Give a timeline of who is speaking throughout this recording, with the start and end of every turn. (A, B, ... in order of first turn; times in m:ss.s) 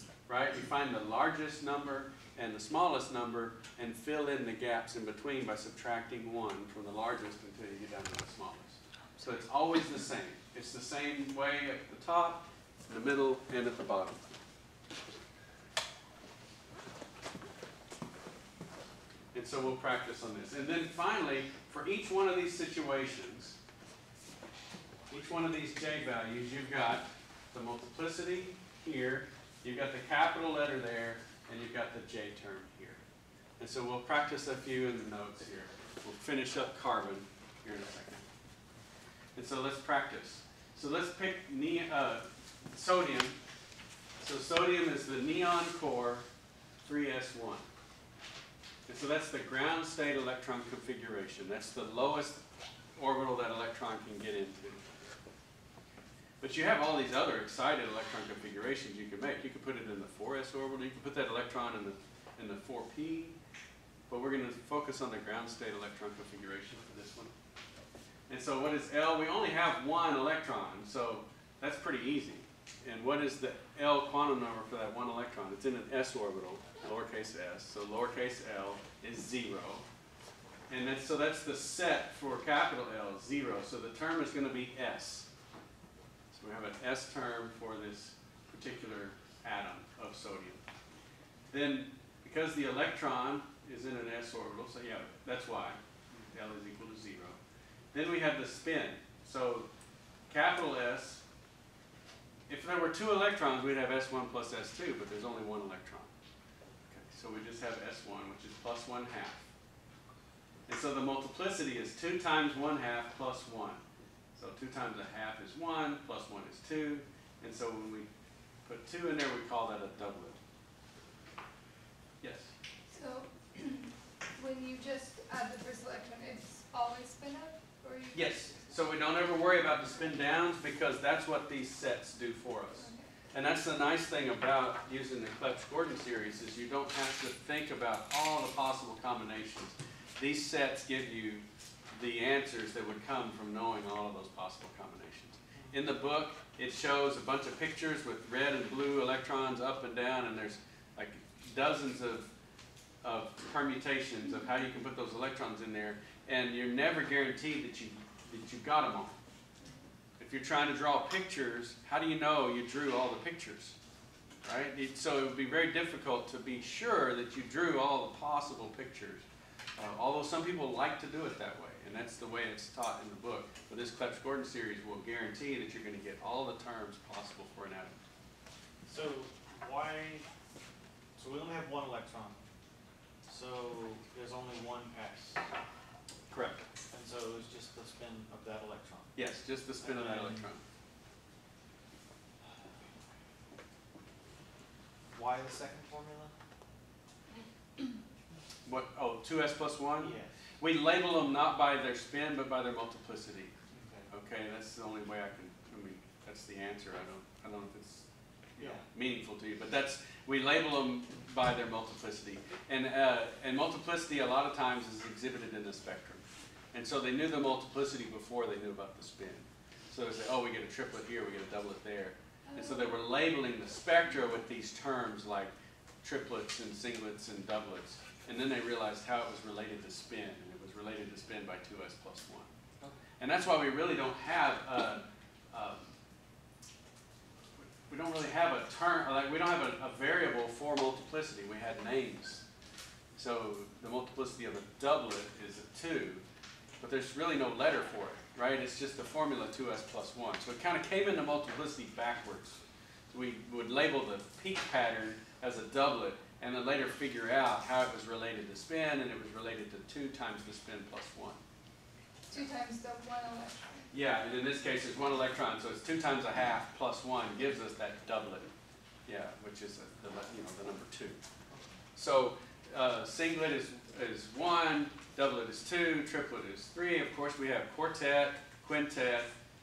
0:00.3-0:14.2 A
0:19.3-0:23.6 A
0:25.1-0:33.0 A
0:33.6-0:38.2 A
0:39.3-0:43.4 A
0:44.2-0:46.2 A
0:46.8-0:47.7 A
0:48.9-0:52.4 A
0:53.0-0:54.9 A
0:56.4-1:03.4 A
1:04.1-1:07.3 A
1:08.3-1:19.8 A
1:20.7-1:25.3 A
1:26.3-1:30.6 A
1:31.5-1:37.4 A
1:37.9-1:39.7 A
1:40.3-1:41.2 A
1:42.5-1:46.1 A
1:46.9-1:49.5 A
1:50.7-1:53.8 A
1:54.4-1:58.1 A
1:58.6-2:00.4 A
2:02.2-2:02.5 A
2:02.9-2:08.5 B
2:08.1-2:32.3 A
2:12.8-2:13.0 B
2:33.0-2:39.2 A
2:40.2-2:43.8 A
2:44.4-2:49.2 A
2:49.8-2:58.0 A
2:58.8-3:00.2 C
3:01.2-3:02.4 C
3:03.3-3:05.4 C
3:06.3-3:06.6 A
3:06.9-3:09.2 C
3:09.1-3:10.6 A
3:09.8-3:10.4 C
3:15.1-3:16.3 C
3:18.6-3:23.5 A
3:20.0-3:20.4 C
3:23.7-3:24.1 C
3:24.1-3:52.5 A
3:28.6-3:28.8 C
3:42.5-3:42.9 B
3:53.2-3:55.9 A
3:57.6-4:02.4 A
4:03.2-4:06.2 A
4:06.8-4:21.4 A
4:22.3-4:23.9 B
4:23.9-4:28.5 A
4:29.1-4:31.2 A
4:32.0-4:39.4 A